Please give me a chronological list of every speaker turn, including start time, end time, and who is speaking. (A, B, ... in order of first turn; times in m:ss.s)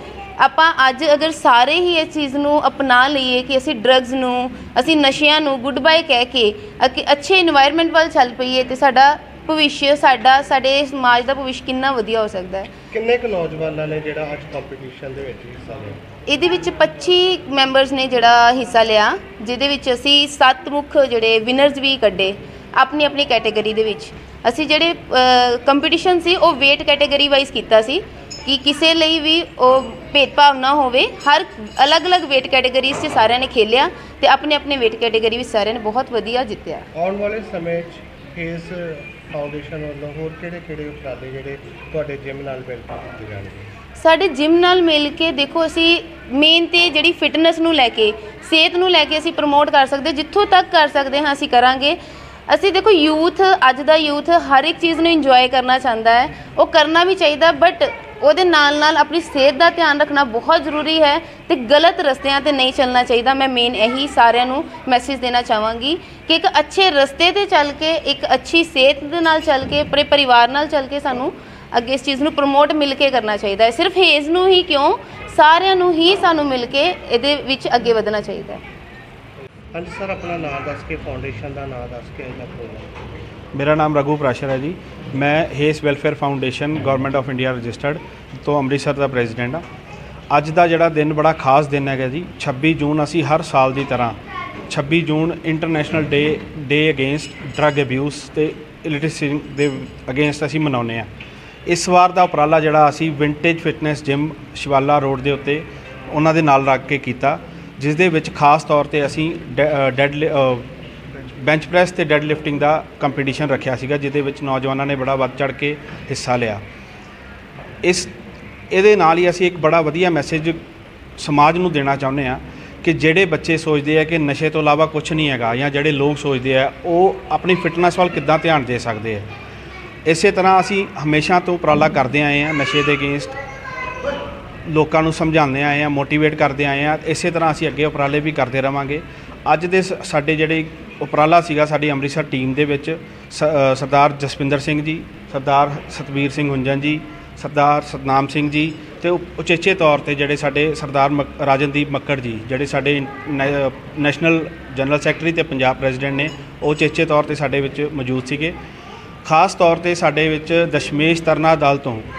0:00.4-0:12.7 A
0:12.9-0:16.0 B
0:16.3-0:36.8 A
0:36.9-0:43.7 B
0:44.0-1:18.6 A
1:19.7-1:22.9 B
1:23.5-1:29.6 C
1:29.0-1:29.3 A
1:30.3-1:34.1 C
1:30.5-1:31.3 A
1:34.7-1:41.1 C
1:38.4-1:38.7 A
1:41.7-1:50.6 C
1:48.2-1:49.7 A
1:51.4-1:56.4 A
1:51.5-1:56.6 C
1:58.7-2:00.5 A
1:58.7-2:00.5 C
2:01.2-2:09.2 A
2:01.2-2:09.2 C
2:10.1-2:13.3 A
2:10.1-2:13.3 C
2:14.7-2:22.8 C
2:14.8-2:22.9 A
2:23.3-2:26.8 C
2:23.8-2:38.5 A
2:27.4-2:38.5 C
2:39.2-2:42.0 C